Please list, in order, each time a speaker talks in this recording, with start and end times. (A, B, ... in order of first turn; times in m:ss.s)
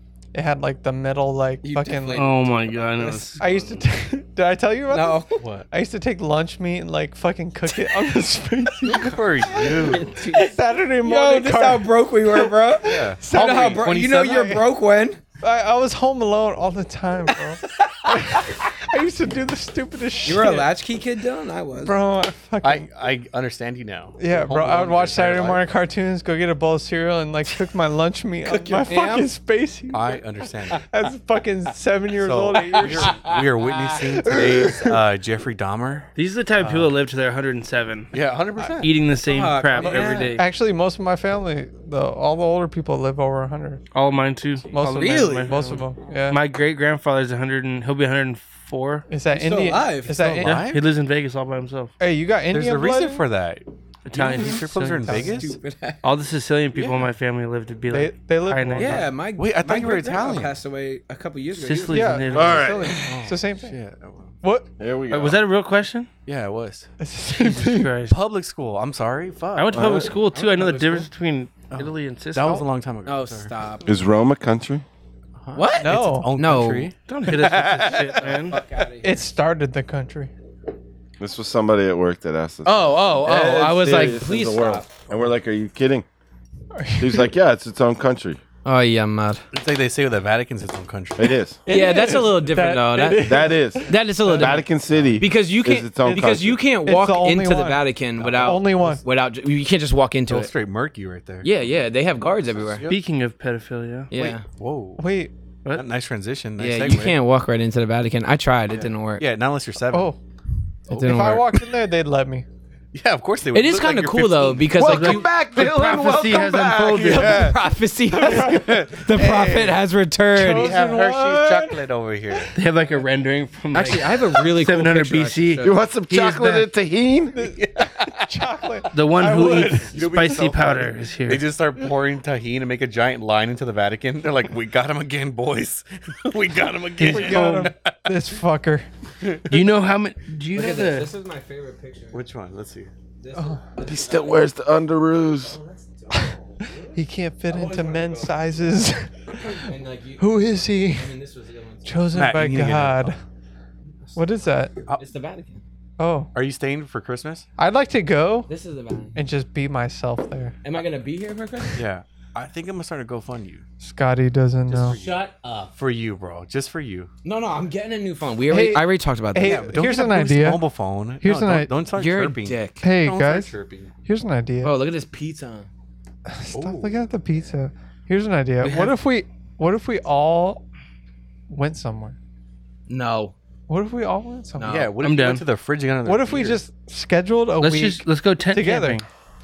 0:00.3-0:02.5 A
0:01.6-0:02.4 B
0:02.1-0:03.8 C
0:03.0-0:14.7 A
0:04.9-0:05.4 B
0:05.4-0:05.7 D
0:07.9-0:08.2 B
0:08.8-0:10.3 D
0:09.5-0:15.2 B
0:12.8-0:14.1 D
0:15.4-0:20.7 A
0:17.7-0:18.7 B
0:20.2-0:22.0 B
0:21.8-0:22.9 A
0:22.6-0:25.7 D
0:24.2-0:30.2 A
0:28.4-0:29.3 B
0:29.9-0:30.8 D
0:30.7-0:33.3 A
0:32.2-0:36.1 D
0:32.8-0:33.9 B
0:34.2-0:35.0 A
0:36.2-0:38.1 C
0:38.1-0:38.9 D
0:38.8-0:40.4 C
0:39.2-0:40.4 B
0:39.8-0:43.8 A
0:39.9-0:40.2 D
0:43.9-0:49.0 C
0:44.7-0:46.4 A
0:44.9-0:45.6 B
0:49.1-0:50.7 A
0:49.3-0:50.4 B
0:50.3-0:50.8 D
0:50.4-0:51.9 C
0:52.0-0:53.3 A
0:52.5-0:55.6 D
0:54.1-0:55.4 C
0:55.0-0:56.0 B
0:56.0-0:59.1 C
0:56.8-0:57.0 D
0:57.9-0:59.2 A
0:58.8-1:02.2 B
0:59.4-1:00.6 D
1:01.6-1:02.7 C
1:01.9-1:03.8 A
1:02.3-1:03.1 E
1:03.0-1:04.4 D
1:04.4-1:04.7 A
1:04.8-1:05.4 E
1:05.1-1:06.1 C
1:06.3-1:06.9 D
1:07.0-1:08.0 A
1:07.3-1:08.2 C
1:08.1-1:10.0 D
1:09.6-1:12.7 C
1:09.7-1:10.1 E
1:10.0-1:11.1 B
1:11.7-1:13.5 D
1:13.1-1:13.9 B
1:13.9-1:14.8 E
1:15.4-1:18.6 D
1:15.6-1:16.9 B
1:15.8-1:16.3 A
1:17.1-1:18.6 C
1:18.5-1:19.2 B
1:19.0-1:20.3 A
1:21.2-1:26.1 E
1:22.6-1:24.9 B
1:26.7-1:27.3 A
1:27.0-1:28.4 E
1:28.6-1:29.4 B
1:29.5-1:31.4 D
1:31.2-1:31.6 E
1:31.7-1:34.6 A
1:31.7-1:34.7 B
1:33.2-1:36.6 E
1:34.9-1:35.2 D
1:35.2-1:40.5 B
1:36.0-1:37.8 A
1:38.2-1:39.0 D
1:38.4-1:39.0 A
1:40.3-1:41.5 D
1:41.4-1:42.8 B
1:42.6-1:43.0 D
1:42.9-1:44.1 C
1:44.1-1:44.4 B
1:44.1-1:45.0 D
1:45.0-1:45.3 A
1:45.7-1:47.2 D
1:46.6-1:49.3 B
1:49.2-1:50.1 D
1:49.9-1:50.2 A
1:50.9-1:51.4 D
1:50.9-1:51.5 B
1:50.9-1:52.4 A
1:52.9-1:57.6 D
1:53.5-2:00.8 B
1:54.8-1:57.5 C
1:58.1-1:59.8 A
1:58.2-1:59.1 D
2:00.3-2:01.9 A
2:00.4-2:02.5 D
2:02.5-2:06.6 C
2:03.7-2:05.8 B
2:05.6-2:07.3 E
2:07.3-2:07.6 A
2:07.4-2:08.3 D
2:08.3-2:10.5 A
2:08.9-2:11.5 C
2:09.9-2:18.0 D
2:17.0-2:17.7 C
2:17.0-2:18.9 A
2:19.2-2:19.6 D
2:19.5-2:21.1 C
2:20.5-2:22.2 B
2:22.1-2:22.9 D
2:23.2-2:24.5 B
2:23.4-2:23.6 A
2:23.8-2:25.6 E
2:25.4-2:26.9 B
2:26.9-2:29.6 A
2:27.5-2:28.6 B
2:29.3-2:32.1 B
2:30.2-2:31.2 A
2:31.8-2:33.2 A
2:32.1-2:33.1 D
2:34.2-2:34.7 A
2:35.0-2:35.6 B
2:36.0-2:36.3 A
2:36.4-2:37.4 D
2:37.6-2:38.5 A
2:38.5-2:39.2 B
2:39.2-2:40.6 A
2:40.6-2:41.8 B
2:41.8-2:43.6 D
2:43.8-2:45.0 A
2:44.7-2:47.1 D
2:44.9-2:45.7 B
2:47.2-2:49.7 B
2:48.5-2:51.7 A
2:49.4-2:53.9 D
2:52.0-2:52.8 B
2:52.8-2:53.5 A
2:54.1-2:54.7 A
2:54.6-2:55.7 B
2:56.3-3:00.6 A
2:56.5-2:57.0 D
2:58.6-2:59.0 C
3:01.5-3:02.2 A
3:02.9-3:03.3 B
3:03.7-3:04.9 A
3:04.6-3:04.9 B
3:04.6-3:06.6 D
3:05.0-3:05.4 C
3:06.0-3:09.0 A
3:07.6-3:09.1 C